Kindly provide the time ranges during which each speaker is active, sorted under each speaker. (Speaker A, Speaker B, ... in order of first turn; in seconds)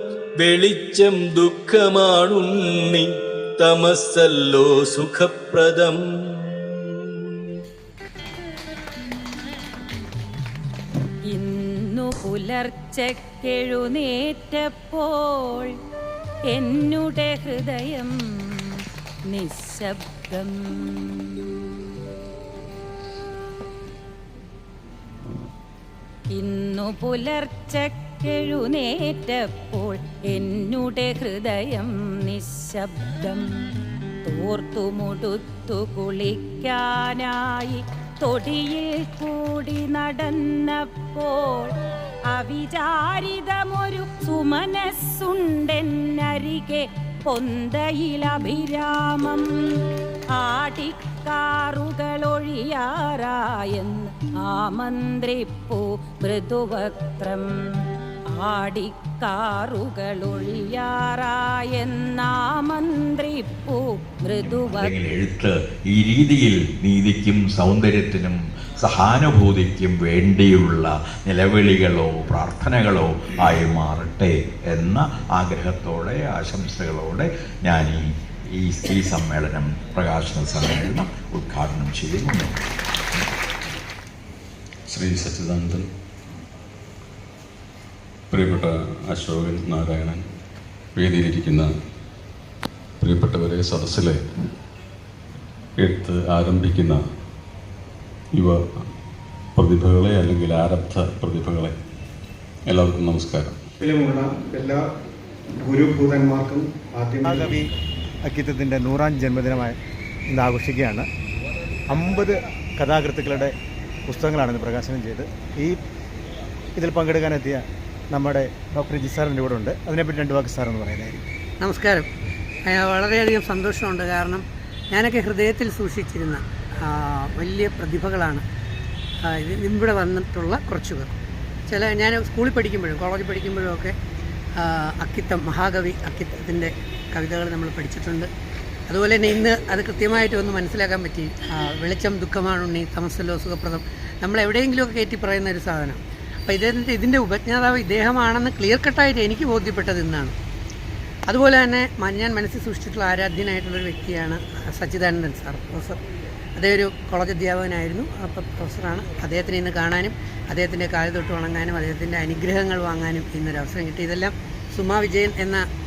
Speaker A: 0.4-3.1, 3.6-7.2
Speaker B: 11.3-15.7, 16.5-18.7, 19.3-21.4, 26.3-33.5, 34.2-41.7, 42.3-49.5, 50.3-57.5, 58.3-64.9
Speaker C: 64.4-82.5
Speaker D: 84.9-85.9, 88.3-90.2, 91.0-91.7, 93.0-94.2, 95.8-97.0, 98.3-98.6, 99.6-101.8, 102.7-103.6
Speaker E: 103.8-104.8, 105.6-107.6
Speaker F: 107.2-107.6, 108.3-109.8, 110.3-111.1, 111.9-113.5, 114.1-115.8, 116.8-121.2
Speaker G: 121.6-122.1, 122.7-128.4, 129.3-131.1, 131.7-133.9, 134.6-138.3, 138.9-150.3, 151.3-156.0, 156.6-165.7